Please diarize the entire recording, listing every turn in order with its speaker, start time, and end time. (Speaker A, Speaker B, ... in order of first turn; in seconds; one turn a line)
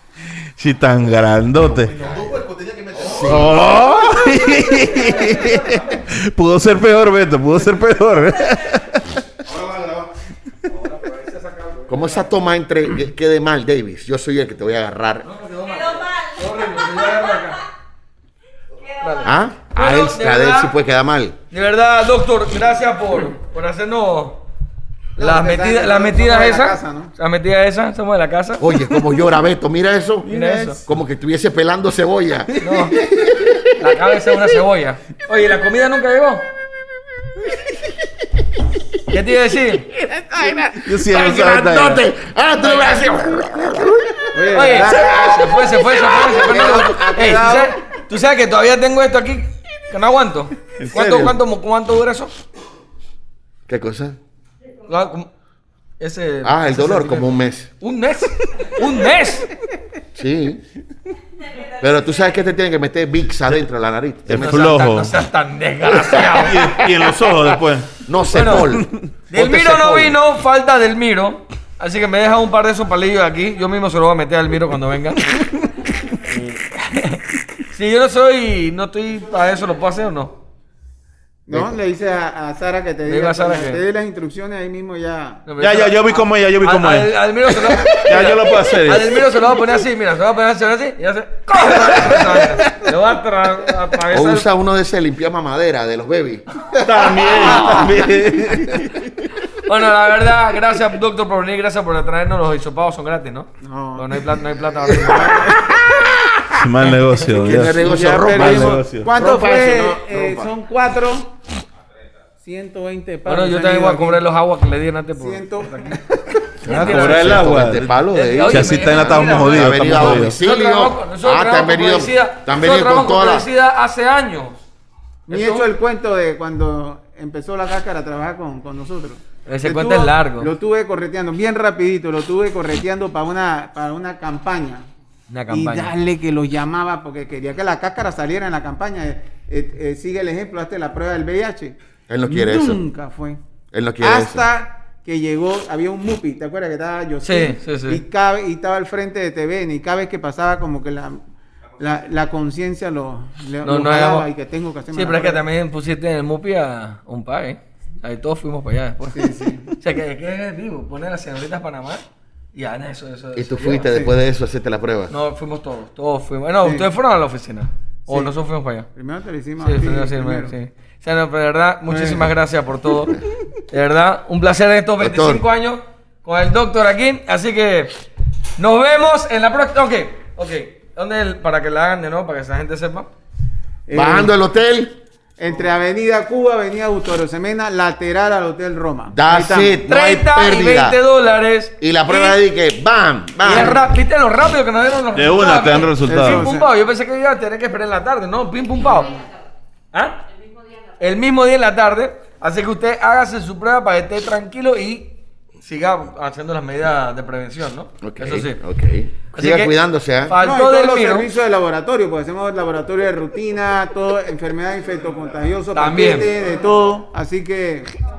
Speaker A: 0.6-1.9
Speaker B: 1.6-3.6
Speaker C: 3.0-4.2
Speaker A: 3.2-9.2
Speaker D: 4.8-6.0
Speaker B: 9.4-10.1
Speaker D: 10.7-12.3
Speaker C: 11.9-15.3
Speaker D: 15.2-17.6
Speaker D: 18.8-20.7
Speaker C: 19.2-21.4
Speaker D: 21.5-24.4
Speaker E: 25.2-27.1
Speaker D: 25.2-28.8
Speaker C: 28.6-30.3
Speaker A: 30.2-30.8
Speaker D: 30.3-30.8
Speaker C: 30.8-33.5
Speaker D: 32.6-33.0
Speaker D: 33.7-36.4
Speaker D: 39.1-39.9
Speaker C: 39.9-45.4
Speaker A: 40.8-42.0
Speaker D: 42.6-43.5
Speaker E: 44.3-45.6
Speaker D: 44.5-52.3
Speaker E: 46.2-47.7
Speaker A: 50.8-51.4
Speaker C: 53.7-54.2
Speaker D: 54.9-55.3
Speaker D: 56.0-59.5
Speaker C: 56.4-57.7
Speaker C: 60.1-60.6
Speaker C: 61.6-64.5
Speaker A: 64.3-65.1
Speaker D: 64.3-67.1
Speaker A: 66.2-68.0
Speaker C: 68.0-70.2
Speaker D: 68.3-68.7
Speaker A: 68.5-69.0
Speaker D: 69.3-80.3
Speaker E: 81.5-85.4
Speaker D: 83.0-83.8
Speaker D: 85.5-94.5
Speaker A: 85.6-89.2
Speaker A: 91.9-92.8
Speaker C: 94.1-98.1
Speaker A: 96.8-99.3
Speaker D: 97.3-98.0
Speaker D: 99.5-105.5
Speaker E: 103.6-104.3
Speaker C: 104.9-110.5
Speaker E: 105.0-105.6
Speaker A: 106.5-109.1
Speaker E: 107.7-111.3
Speaker E: 112.4-114.2
Speaker D: 113.2-116.0
Speaker E: 115.1-116.0
Speaker C: 116.6-123.5
Speaker D: 116.7-117.4
Speaker A: 116.7-118.0
Speaker D: 118.1-124.6
Speaker A: 118.5-120.4
Speaker E: 125.3-134.9
Speaker D: 125.3-125.7
Speaker D: 129.4-130.5
Speaker D: 135.3-135.9
Speaker E: 135.5-143.4
Speaker C: 142.1-142.8
Speaker C: 143.7-144.5
Speaker E: 144.0-151.2
Speaker D: 147.2-148.0
Speaker E: 151.8-155.4
Speaker D: 153.6-154.3
Speaker D: 154.9-163.9
Speaker E: 159.1-159.7
Speaker C: 163.3-165.1
Speaker E: 163.8-164.1
Speaker D: 165.1-168.9
Speaker E: 168.9-170.5
Speaker D: 169.6-178.0
Speaker E: 171.9-172.3
Speaker C: 175.0-175.4
Speaker D: 178.6-183.1
Speaker E: 183.9-184.3
Speaker C: 183.9-185.0
Speaker E: 185.4-189.8
Speaker C: 189.1-191.0
Speaker D: 189.9-192.4
Speaker C: 191.8-193.8
Speaker D: 193.4-199.3
Speaker E: 193.5-193.8
Speaker A: 195.1-196.4
Speaker E: 196.1-196.7
Speaker D: 199.9-200.2
Speaker D: 201.0-208.6
Speaker C: 208.0-210.4
Speaker D: 209.3-211.3
Speaker E: 210.4-217.9
Speaker D: 215.7-216.3